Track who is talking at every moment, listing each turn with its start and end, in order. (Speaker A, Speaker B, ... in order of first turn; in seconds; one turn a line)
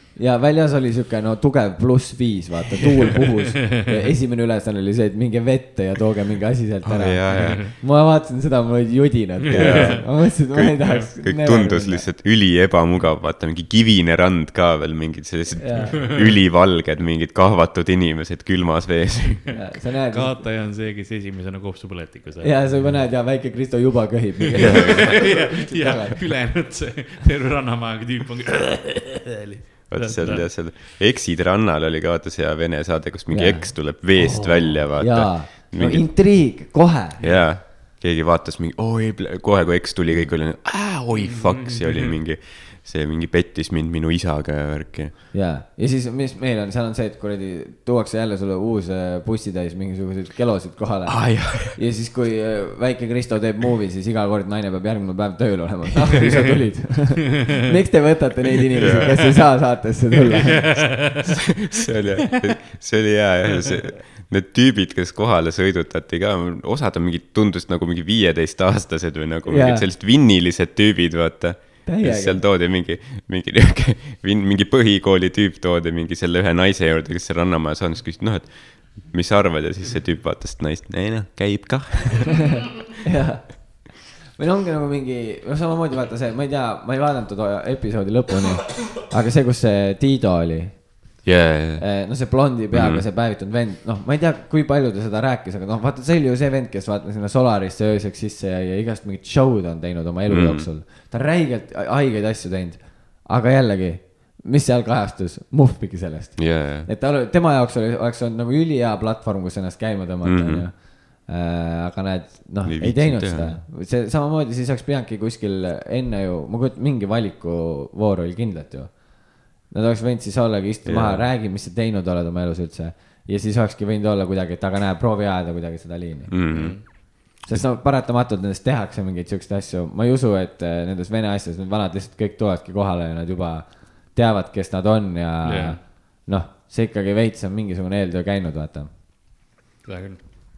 Speaker A: 0.1-12.1
Speaker B: 6.8-7.7
Speaker C: 7.3-7.7
Speaker C: 9.4-10.1
Speaker B: 9.5-19.6
Speaker C: 10.8-11.1
Speaker A: 15.6-16.0
Speaker A: 19.5-20.4
Speaker C: 20.1-22.6
Speaker A: 22.4-26.2
Speaker B: 24.6-25.3
Speaker C: 24.6-30.5
Speaker B: 29.9-36.2
Speaker A: 33.3-34.0
Speaker C: 34.2-34.8
Speaker A: 35.0-37.2
Speaker B: 37.2-45.1
Speaker C: 41.3-41.7
Speaker A: 45.3-61.0
Speaker B: 51.1-51.8
Speaker B: 58.8-59.4
Speaker C: 60.5-61.6
Speaker B: 61.0-82.6
Speaker A: 69.5-69.9
Speaker A: 71.8-72.4
Speaker A: 83.0-91.2
Speaker B: 91.2-93.0
Speaker A: 91.8-126.8
Speaker B: 100.3-100.7
Speaker B: 106.4-106.9
Speaker B: 110.2-110.7
Speaker B: 112.6-113.6
Speaker B: 120.8-121.2
Speaker B: 126.3-127.6
Speaker C: 126.5-126.8
Speaker A: 127.4-138.9
Speaker C: 135.4-135.8
Speaker C: 139.8-140.2